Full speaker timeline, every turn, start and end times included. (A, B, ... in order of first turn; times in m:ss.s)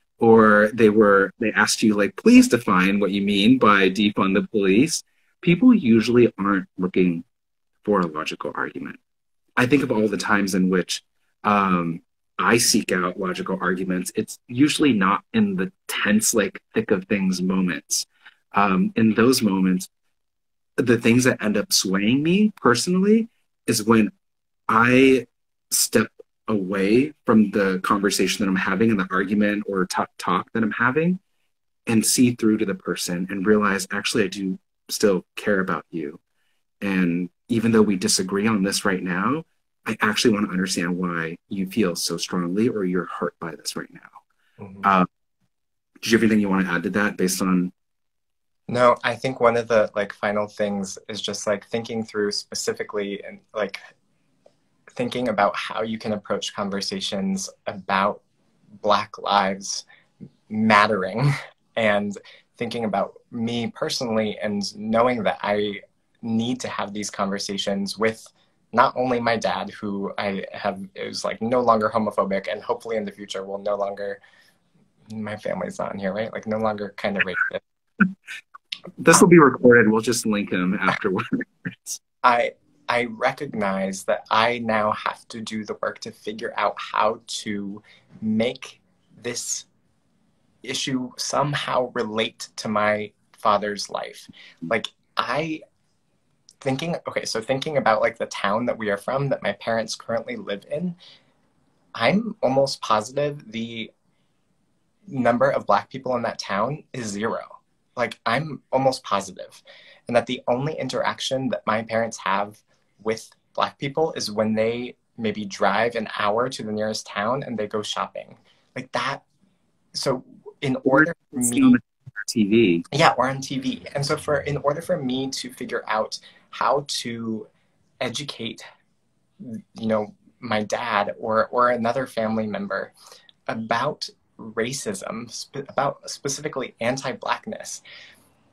0:00.2-0:07.3 A
0:07.8-0:09.0 A
0:09.6-0:19.9 A
0:20.8-0:24.1 A
0:24.7-0:31.2 A
0:31.9-0:36.2 A
0:36.8-0:44.2 A
0:44.6-0:44.9 B
0:46.0-0:47.7 A
0:48.7-0:53.8 B
0:54.9-0:58.2 B
0:58.8-0:59.8 B
1:00.5-1:14.2 B
1:15.1-1:17.6 B
1:19.0-1:22.0 A
1:22.2-1:29.7 B
1:30.6-1:35.6 B
1:36.6-1:41.0 B
1:42.0-1:43.9 B
1:45.1-1:59.2 B
1:59.9-2:01.8 B
2:00.8-2:02.8 A
2:02.9-2:07.5 B
2:08.0-2:08.6 B
2:09.4-2:12.9 B
2:13.5-2:17.8 B